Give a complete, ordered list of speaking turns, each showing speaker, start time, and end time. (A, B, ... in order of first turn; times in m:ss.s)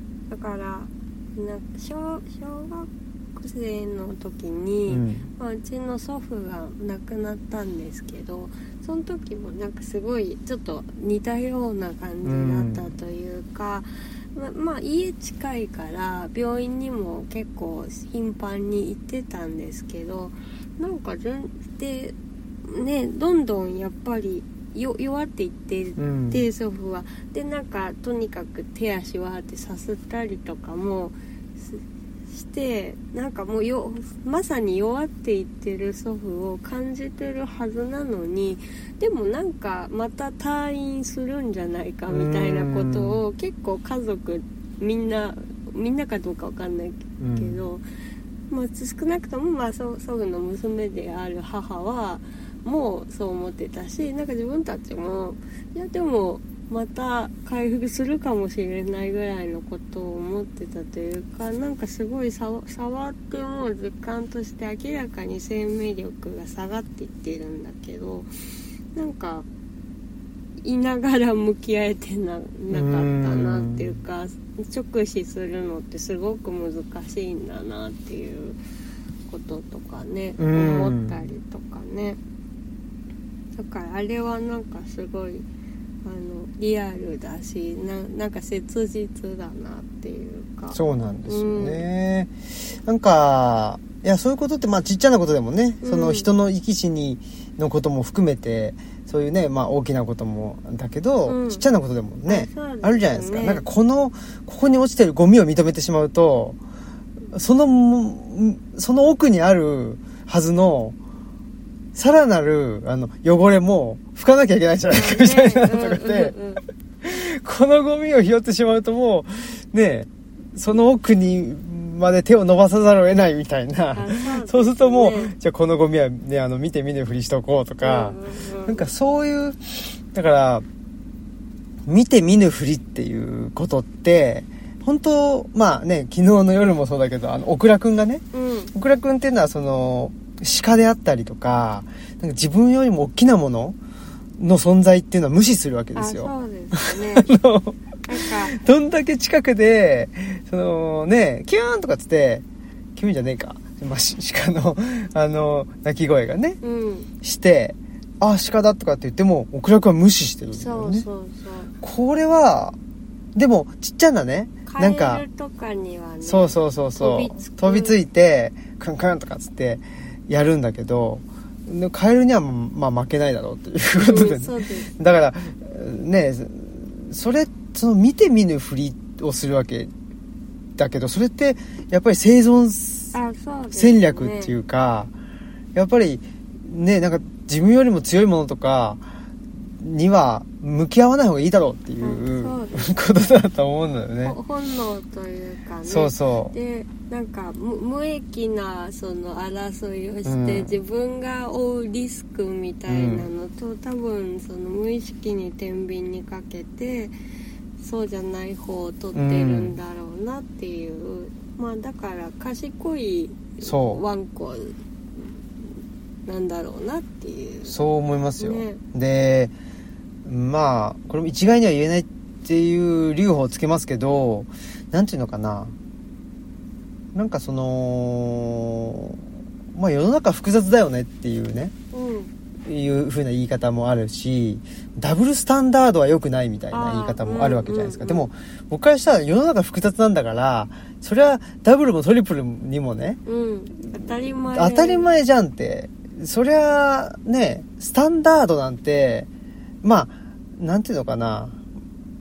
0:00.3-0:47.8 A
0:04.9-0:05.3 B
0:12.2-0:12.9 B
0:26.0-0:26.4 B
0:42.1-0:43.2 B
0:47.2-0:47.6 B
0:48.5-1:08.3 A
1:08.9-1:09.5 A
1:10.6-1:18.6 A
1:12.7-1:14.0 B
1:19.3-1:22.2 A
1:20.4-1:21.2 B
1:23.5-1:25.4 A
1:26.0-1:31.8 A
1:30.7-1:46.6 B
1:35.8-1:36.3 A
1:41.2-1:41.6 A
1:42.2-1:43.6 A
1:47.3-1:51.0 B
1:51.9-1:56.3 B
1:54.9-1:56.6 A
1:57.0-2:10.6 B
2:03.9-2:05.3 A
2:07.8-2:08.9 A
2:11.8-2:23.8 B
2:18.3-2:18.7 A
2:24.4-2:32.4 B
2:25.9-2:27.3 A
2:28.0-2:28.6 A
2:33.0-2:36.6 B
2:36.6-2:37.1 A
2:37.2-2:41.0 B
2:40.5-2:41.7 A
2:41.8-2:42.8 B
2:43.3-2:45.2 B
2:44.6-2:48.0 A
2:46.2-2:59.9 B
2:54.0-2:54.9 A
3:00.8-3:03.1 B
3:03.1-3:04.5 A
3:03.7-3:05.1 B
3:05.7-3:14.4 B
3:12.0-3:13.0 A
3:14.2-3:27.1 A
3:15.8-3:16.5 B
3:20.2-3:20.8 B
3:22.9-3:23.3 B
3:27.8-3:37.8 A
3:29.1-3:29.8 B
3:33.6-3:34.0 B
3:37.6-3:39.5 B
3:38.4-3:38.8 A
3:40.2-3:45.7 B
3:47.1-3:49.2 B
3:49.7-3:51.7 B
3:51.9-3:52.3 A
3:52.6-4:03.2 B
3:56.7-3:58.3 A
4:03.2-4:05.1 A
4:04.5-4:09.3 B
4:09.8-4:11.6 B